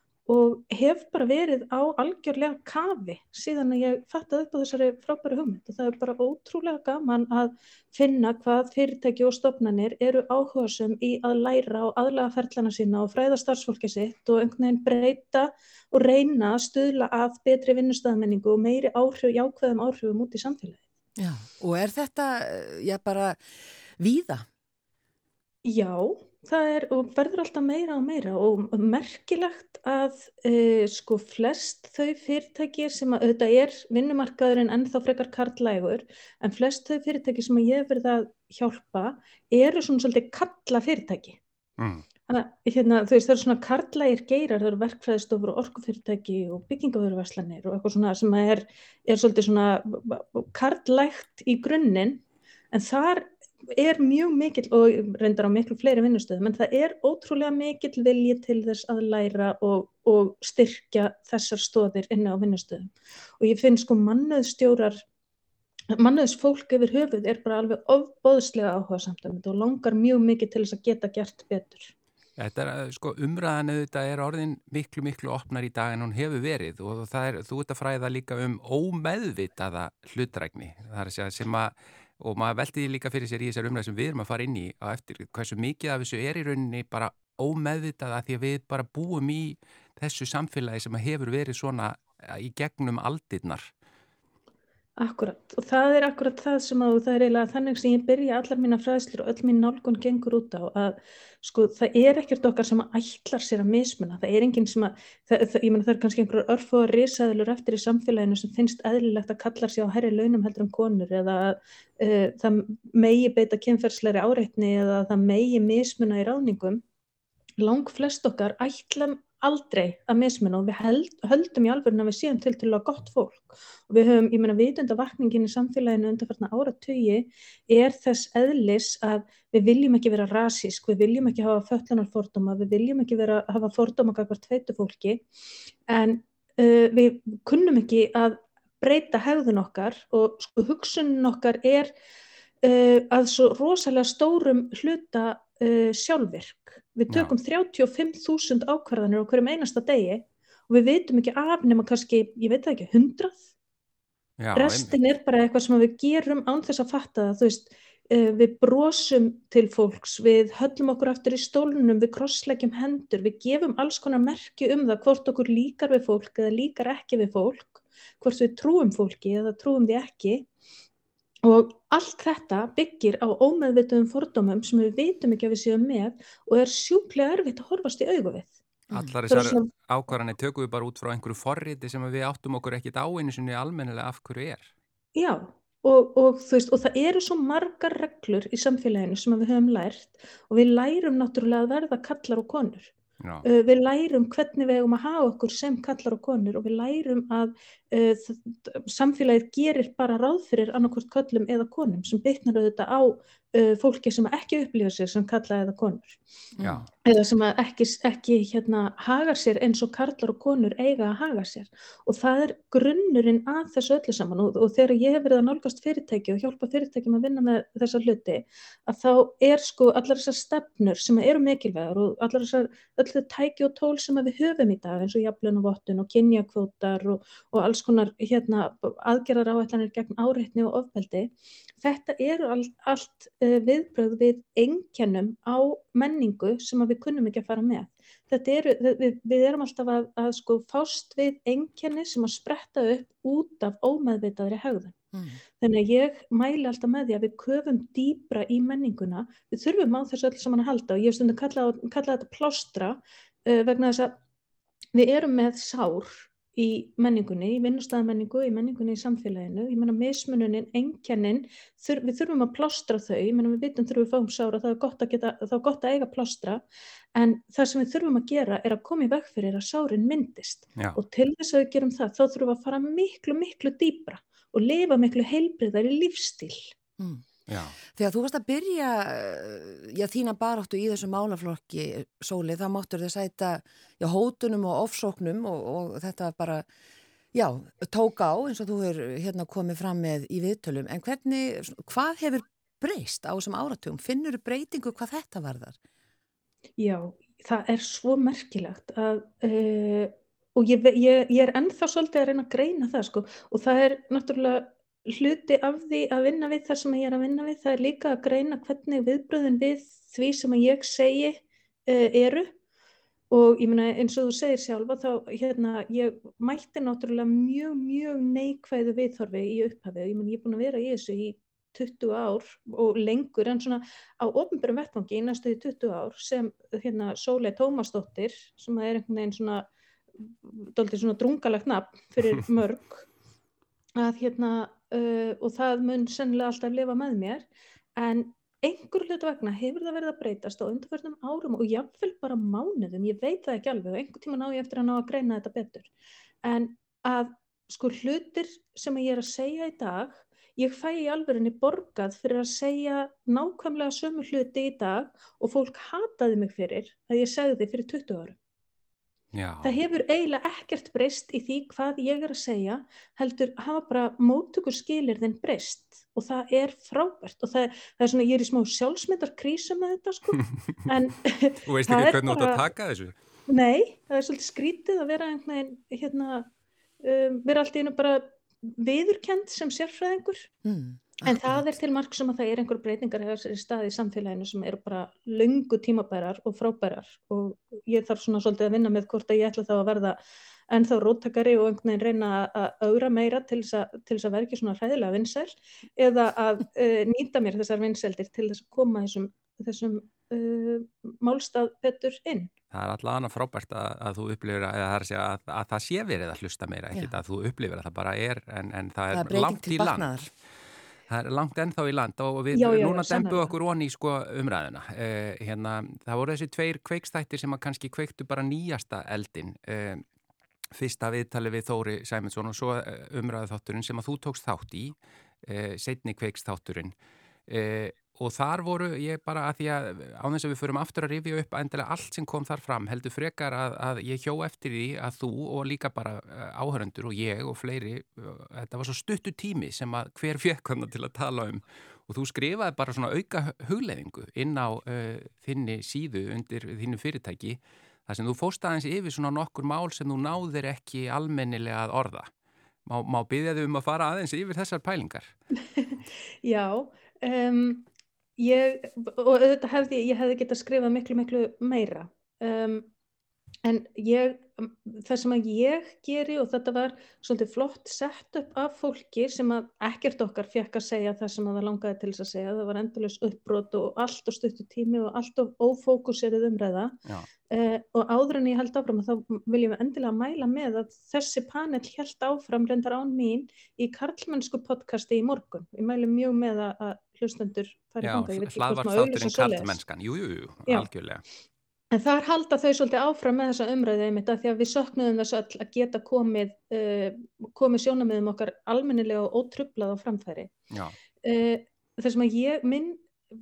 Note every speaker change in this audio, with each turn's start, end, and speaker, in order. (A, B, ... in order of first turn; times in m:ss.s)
0:00.3-0:20.8 A
0:21.2-0:24.5 B
0:25.6-0:41.4 A
0:41.8-0:42.0 C
0:42.3-1:05.0 A
1:05.9-1:11.9 A
1:12.4-1:33.7 C
1:35.0-1:56.8 A
1:57.6-2:15.2 A
2:15.9-2:21.9 A
2:22.6-2:33.4 A
2:34.4-2:35.0 C
2:34.6-2:50.5 A
2:51.4-2:58.6 A
2:58.9-3:04.7 C
2:59.3-2:59.7 A
3:05.2-3:12.9 A
3:13.2-3:13.5 C
3:13.4-3:26.2 A
3:26.6-3:26.9 B
3:26.6-3:26.9 C
3:27.0-4:05.0 A
4:05.1-4:05.4 B
4:05.6-4:14.2 A
4:14.9-4:26.6 A
4:27.2-4:36.7 A
4:37.0-4:37.2 B
4:37.5-4:37.8 C
4:37.9-4:46.7 B
4:47.3-4:55.8 B
4:56.8-5:12.5 A
5:13.3-5:29.7 A
5:30.2-5:33.1 A
5:34.0-5:37.5 A
5:38.0-5:45.9 A
5:46.4-5:58.4 A
5:59.3-5:59.8 C
5:59.6-6:12.6 A
6:11.6-6:13.2 C
6:13.5-6:16.5 A
6:17.0-6:20.5 A
6:20.6-6:21.6 B
6:21.2-6:30.2 A
6:30.7-6:42.5 A
6:42.7-6:50.1 C
6:49.1-6:50.3 B
6:51.1-7:00.0 C
6:52.5-6:53.5 A
7:00.7-7:07.0 C
7:07.5-7:32.3 C
7:32.9-7:35.4 C
7:35.8-7:37.9 A
7:38.4-7:42.9 A
7:43.6-7:57.0 A
7:57.5-8:09.8 A
8:08.0-8:11.2 C
8:11.9-8:20.5 A
8:20.7-8:21.0 C
8:21.2-8:23.0 A